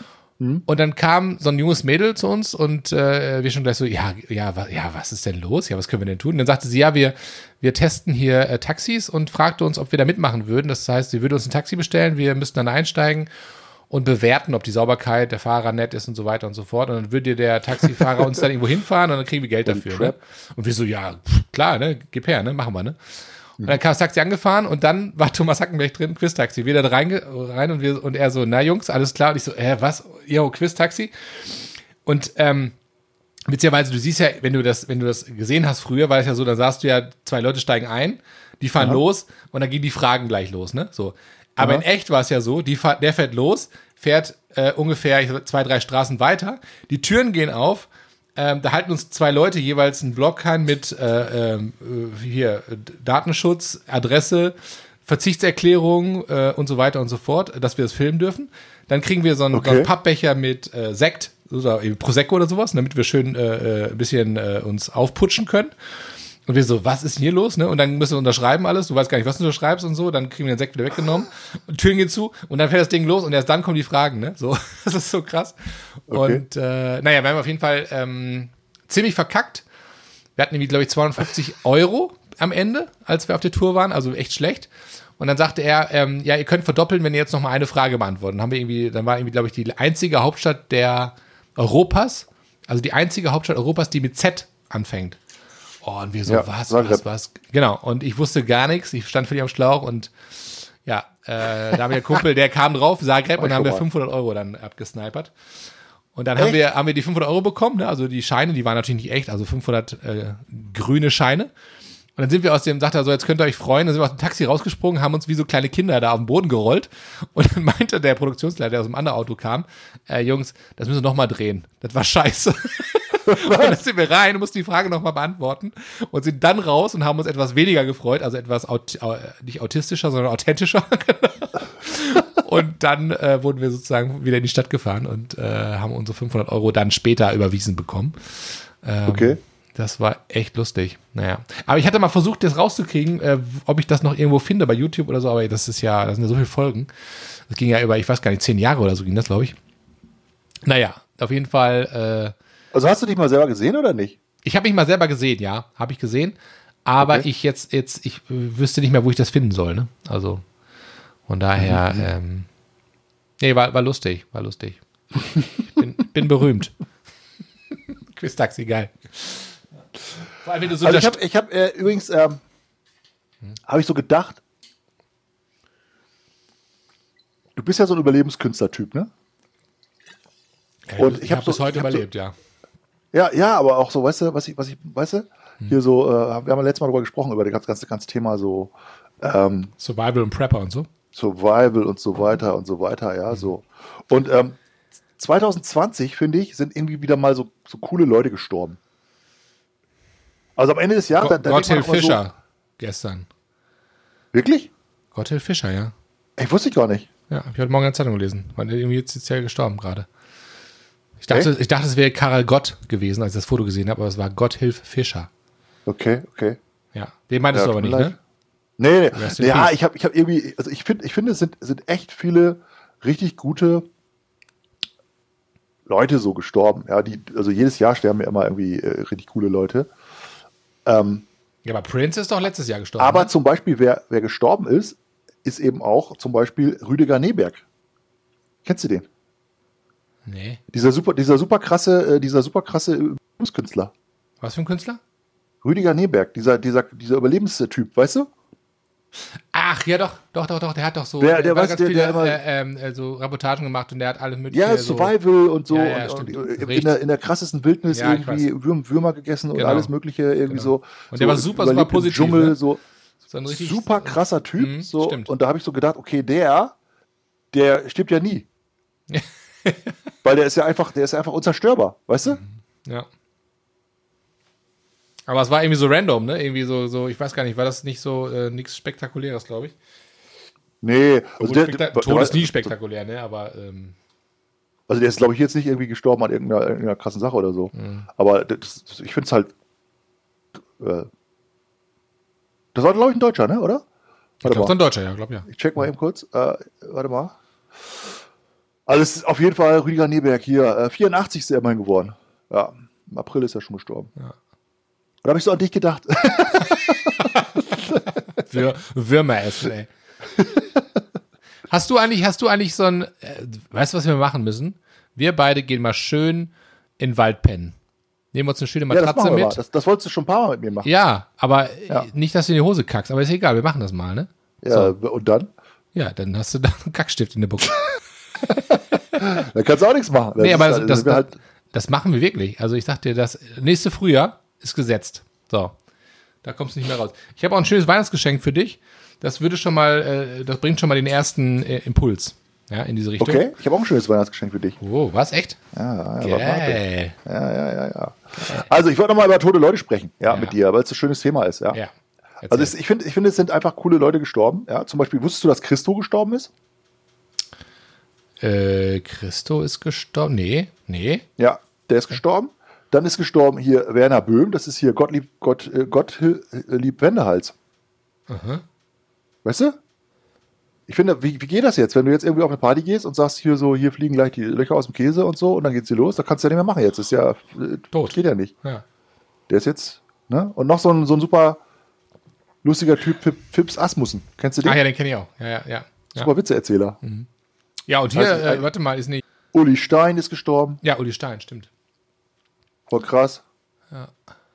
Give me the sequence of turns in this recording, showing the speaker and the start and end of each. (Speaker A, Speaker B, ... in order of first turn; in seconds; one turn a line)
Speaker A: 0.7-13.3
Speaker A: 13.9-23.0
Speaker B: 19.7-20.2
Speaker A: 23.6-32.8
Speaker A: 33.5-65.7
Speaker B: 41.6-41.8
Speaker B: 59.5-59.9
Speaker A: 66.5-79.7
Speaker B: 76.1-76.4
Speaker A: 80.4-95.2
Speaker A: 95.8-105.3
Speaker B: 96.3-97.0
Speaker B: 103.4-103.8
Speaker A: 106.2-111.5
Speaker A: 112.2-149.6
Speaker B: 123.3-123.7
Speaker B: 139.1-139.4
Speaker A: 150.7-152.3
Speaker B: 152.7-154.2
Speaker A: 154.4-160.4
Speaker A: 161.3-162.5
Speaker B: 161.6-162.1
Speaker A: 163.4-164.8
Speaker A: 165.7-166.7
Speaker A: 168.1-169.6
Speaker A: 170.3-171.2
Speaker B: 170.8-172.4
Speaker B: 173.7-174.4
Speaker B: 177.6-179.1
Speaker A: 180.9-182.3
Speaker B: 181.0-182.0
Speaker B: 183.1-189.7
Speaker A: 189.8-190.9
Speaker B: 191.1-194.6
Speaker B: 195.2-198.8
Speaker B: 200.6-202.2
Speaker A: 201.2-203.3
Speaker B: 204.3-204.7
Speaker A: 205.1-205.9
Speaker B: 206.4-207.1
Speaker A: 207.3-210.1
Speaker A: 211.2-215.3
Speaker B: 215.9-216.6
Speaker A: 216.9-218.1
Speaker B: 217.5-218.1
Speaker B: 218.8-223.8
Speaker A: 219.1-219.7
Speaker B: 225.9-229.9
Speaker B: 230.9-231.3
Speaker A: 231.7-233.3
Speaker B: 233.0-237.6
Speaker B: 238.7-239.1
Speaker A: 240.3-240.6
Speaker B: 240.7-243.9
Speaker A: 244.4-245.0
Speaker B: 245.6-248.3
Speaker A: 249.5-255.1
Speaker B: 251.2-252.4
Speaker B: 254.5-262.8
Speaker A: 255.7-257.0
Speaker A: 257.9-258.5
Speaker A: 259.5-259.9
Speaker A: 260.5-262.6
Speaker A: 263.3-265.3
Speaker B: 263.5-266.8
Speaker B: 267.5-268.5
Speaker A: 269.1-269.9
Speaker B: 270.2-272.4
Speaker A: 272.3-273.1
Speaker A: 275.3-279.8
Speaker B: 280.8-282.7
Speaker A: 281.4-284.0
Speaker B: 284.9-289.5
Speaker A: 287.8-288.1
Speaker B: 290.8-291.1
Speaker B: 292.7-293.8
Speaker B: 294.4-294.8
Speaker A: 294.4-295.5
Speaker B: 295.5-297.4
Speaker B: 298.9-304.1
Speaker B: 305.2-308.2
Speaker A: 308.4-309.9
Speaker B: 310.4-310.7
Speaker A: 311.7-317.8
Speaker A: 318.3-319.6
Speaker B: 318.9-320.9
Speaker A: 320.8-324.9
Speaker B: 324.6-325.5
Speaker A: 325.9-329.3
Speaker B: 329.2-331.4
Speaker A: 330.4-335.8
Speaker A: 336.4-343.5
Speaker B: 343.2-344.8
Speaker A: 344.8-345.6
Speaker B: 345.7-351.8
Speaker A: 346.2-347.2
Speaker A: 348.4-348.7
Speaker A: 350.2-350.6
Speaker A: 352.4-352.7
Speaker B: 352.5-356.5
Speaker A: 358.4-361.3
Speaker B: 361.4-367.6
Speaker A: 368.3-368.6
Speaker B: 369.4-369.8
Speaker B: 370.9-378.5
Speaker A: 377.9-378.8
Speaker B: 379.5-381.6
Speaker B: 382.6-384.8
Speaker A: 384.6-386.3
Speaker B: 386.2-387.0
Speaker A: 387.0-387.3
Speaker A: 387.9-389.2
Speaker B: 388.1-388.6
Speaker B: 389.5-390.8
Speaker A: 390.8-391.7
Speaker B: 392.9-393.4